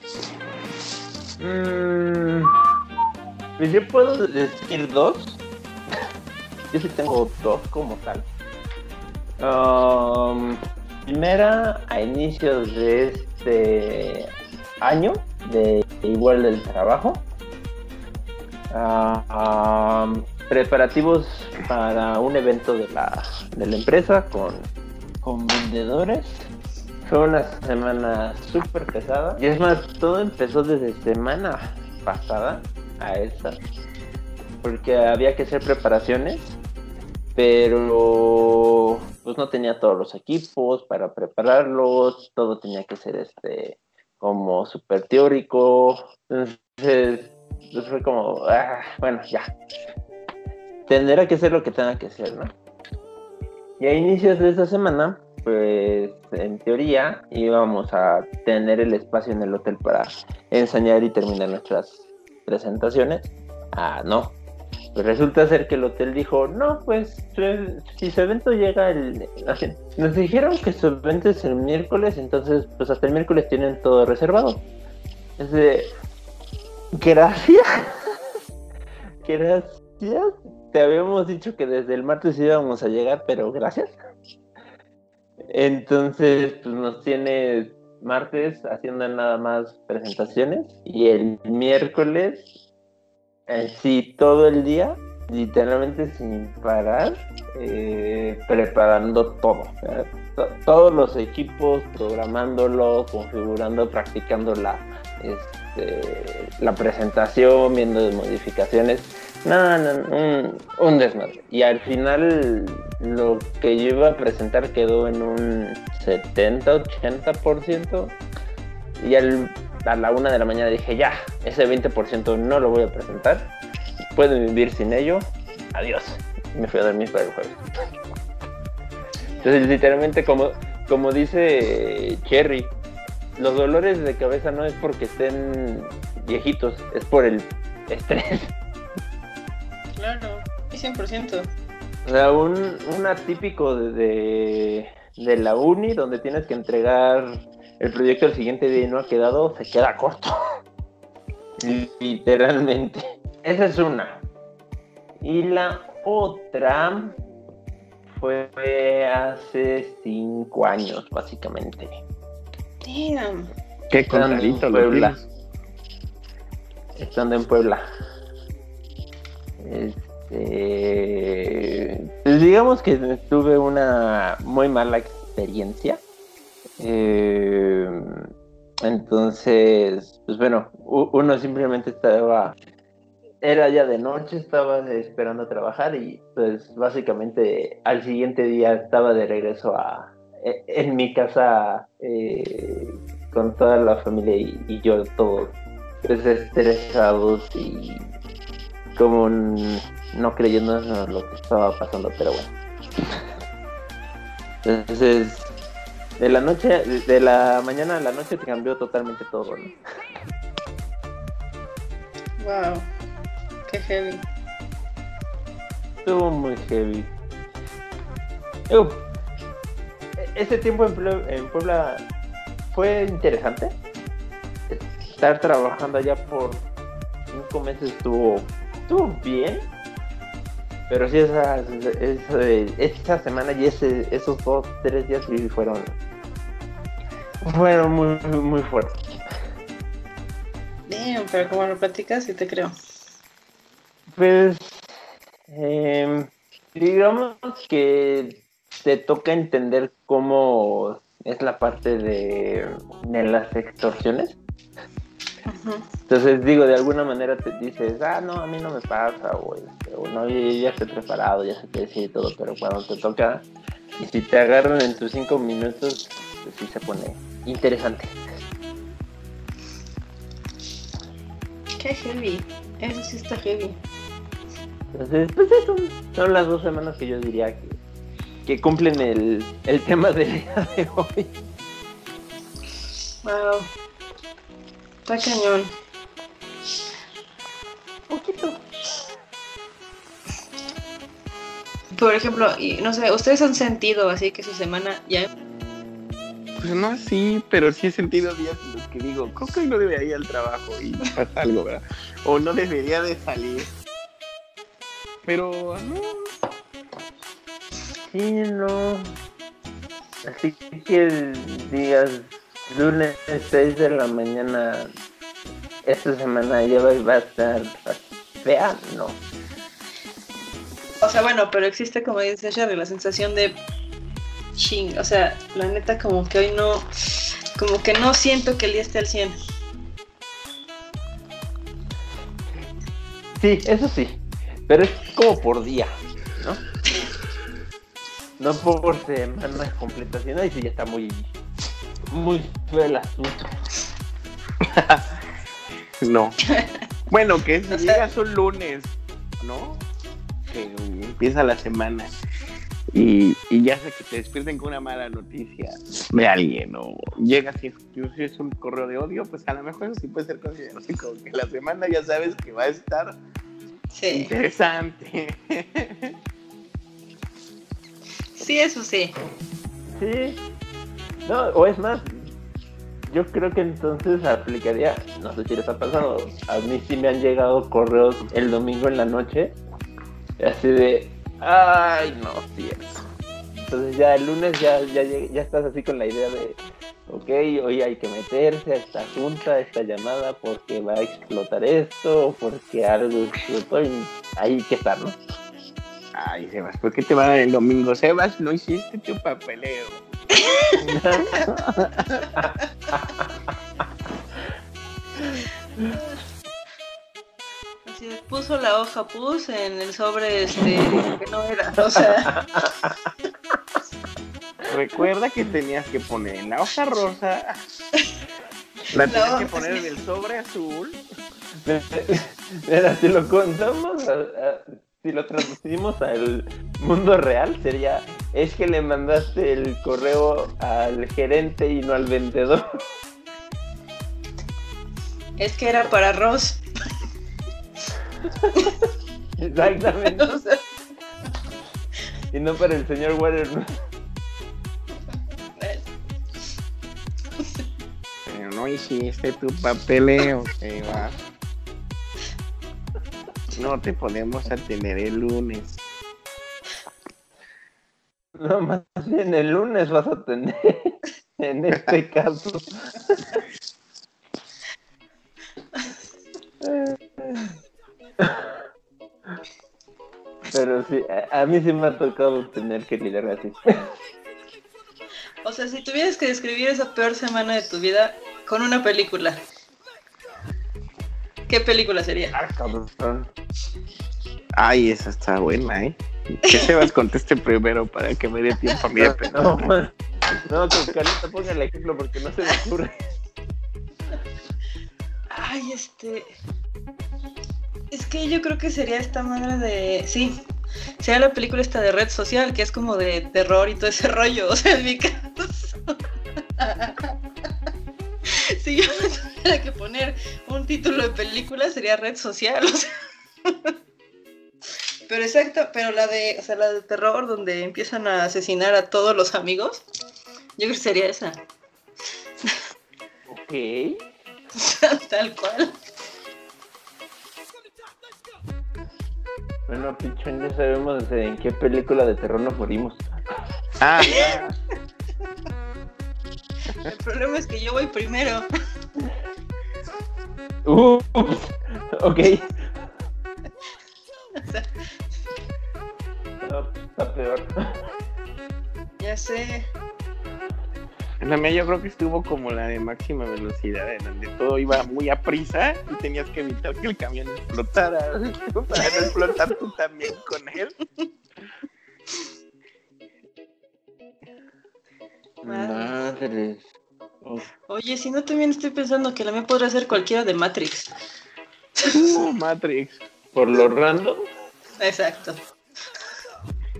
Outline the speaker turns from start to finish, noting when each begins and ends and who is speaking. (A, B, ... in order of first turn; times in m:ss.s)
0:01.4-0:02.6 A
0:03.6-0:05.4 A
0:06.7-0:08.2 A
0:09.4-0:14.3 A
0:14.8-0:17.2 A
0:18.7-0:24.7 A
0:25.2-0:26.4 A
0:27.0-0:33.6 A
0:34.6-0:36.5 A
0:37.4-0:49.5 A
0:50.9-0:52.5 A
0:53.8-1:04.4 A
1:04.9-1:14.6 A
1:15.4-1:15.9 A
1:16.9-1:17.9 A
1:19.2-1:24.0 A
1:25.4-1:32.5 A
1:33.5-1:58.2 A
1:59.0-2:03.5 A
2:04.1-2:07.6 A
2:09.4-2:12.7 A
2:13.4-2:18.5 A
2:20.0-2:21.5 B
2:22.0-2:30.4 A
2:31.6-2:34.2 A
2:35.2-2:37.2 A
2:38.1-2:42.0 A
2:42.8-2:43.5 B
2:43.9-2:45.2 C
2:44.1-2:45.1 A
2:47.0-2:47.8 A
2:49.6-2:56.0 A
2:56.8-2:58.3 A
2:58.8-3:02.6 A
3:03.4-3:15.5 A
3:16.0-3:18.1 A
3:19.0-3:22.5 A
3:24.6-3:25.5 A
3:26.2-3:29.8 A
3:32.4-3:32.9 B
3:33.7-3:34.2 B
3:36.0-3:37.1 A
3:38.7-3:39.0 A
3:40.2-3:42.0 A
3:42.7-3:43.8 A
3:44.7-3:46.6 A
3:47.3-3:49.7 A
3:50.9-3:55.9 A
3:57.4-3:59.2 A
4:00.9-4:02.7 B
4:04.1-4:04.9 A
4:05.5-4:14.4 A
4:15.5-4:15.9 B
4:16.1-4:23.4 A
4:24.0-4:28.2 A
4:31.8-4:33.8 B
4:34.9-4:37.8 A
4:38.4-4:41.3 A
4:43.2-4:43.7 B
4:45.0-4:45.7 B
4:48.1-4:48.6 A
4:51.9-4:55.3 B
4:56.6-5:03.7 C
5:05.2-5:06.3 C
5:08.1-5:09.1 A
5:10.2-5:14.9 A
5:15.8-5:19.2 A
5:21.0-5:23.6 B
5:24.6-5:26.9 B
5:27.6-5:29.4 B
5:33.4-5:36.6 A
5:38.4-5:41.3 A
5:42.1-5:43.5 A
5:44.6-5:45.1 C
5:46.0-5:46.4 C
5:47.1-5:49.8 C
5:47.7-5:48.0 B
5:50.5-5:52.1 C
5:52.9-6:03.2 C
6:03.9-6:04.3 B
6:04.1-6:06.1 C
6:08.4-6:09.1 B
6:09.9-6:10.4 A
6:11.2-6:12.1 A
6:13.1-6:19.6 A
6:20.4-6:23.0 A
6:23.6-6:35.2 A
6:36.1-6:40.0 C
6:40.4-6:40.8 B
6:40.8-6:41.4 A
6:41.5-6:42.2 C
6:42.4-6:43.5 A
6:45.2-6:45.9 A
6:47.9-6:52.3 B
6:51.9-6:53.1 A
6:54.7-6:57.6 C
6:58.9-7:01.0 C
6:59.1-6:59.9 B
7:01.6-7:12.6 A
7:15.4-7:16.6 B
7:19.4-7:20.3 A
7:20.2-7:20.6 B
7:22.3-7:23.7 A
7:25.6-7:25.9 B
7:28.2-7:31.2 C
7:33.5-7:35.8 C
7:38.4-7:43.2 A
7:46.6-7:47.6 A
7:48.2-7:48.6 A
7:50.5-7:53.9 A
7:55.4-7:59.4 B
8:01.5-8:02.3 B
8:02.3-8:03.3 A
8:04.6-8:09.7 C
8:09.0-8:09.9 A
8:10.4-8:13.0 A
8:15.3-8:16.4 B
8:17.9-8:20.4 B
8:21.0-8:26.0 B
8:26.6-8:27.1 B
8:28.3-8:32.9 B
8:33.4-8:33.7 B
8:35.1-8:39.8 B
8:40.6-8:41.4 B
8:43.3-8:44.0 A
8:44.6-8:45.7 B
8:49.7-8:53.2 A
8:53.8-8:54.5 C
8:56.8-8:58.4 B
9:00.6-9:02.7 A
9:04.4-9:04.7 B
9:06.4-9:07.5 A
9:09.0-9:09.7 B
9:11.2-9:20.7 C
9:18.7-9:19.3 B
9:25.4-9:26.6 A
9:25.4-9:25.9 B
9:27.2-9:27.5 A
9:27.7-9:30.9 B
9:31.8-9:33.0 C
9:33.3-9:34.3 A
9:34.8-9:35.4 B